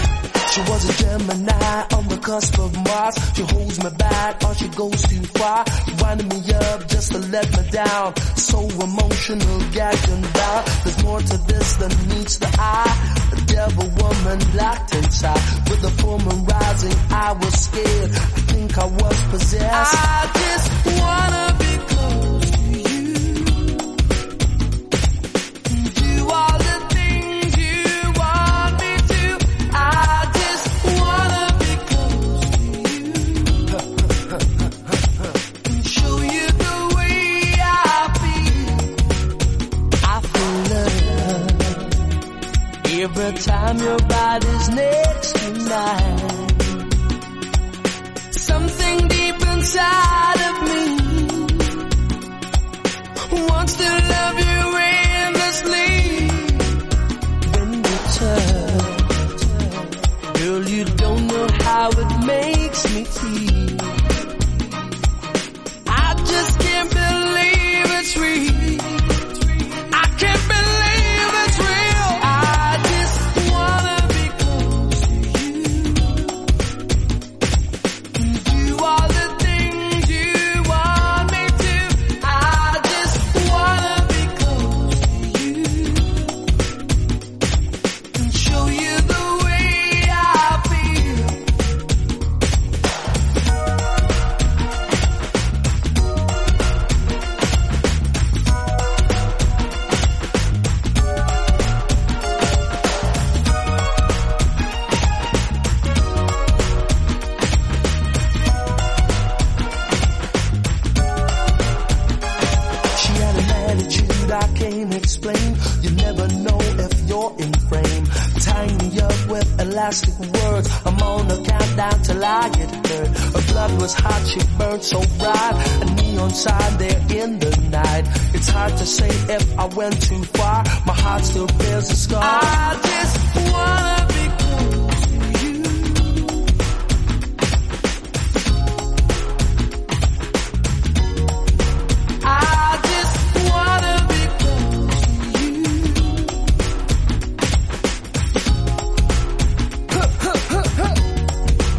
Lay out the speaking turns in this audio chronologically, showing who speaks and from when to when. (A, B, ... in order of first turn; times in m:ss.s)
0:00.5-0:23.9 A
0:25.6-0:34.6 A
0:35.6-0:39.0 A
0:40.0-0:42.0 A
0:42.8-0:46.9 A
0:48.3-0:51.9 A
0:53.3-0:56.8 A
0:57.4-1:04.3 A
1:05.9-1:16.4 A
1:18.1-1:26.4 A
1:28.1-1:31.4 A
1:52.9-2:16.4 A
2:22.2-2:26.4 A
2:30.0-2:30.7 A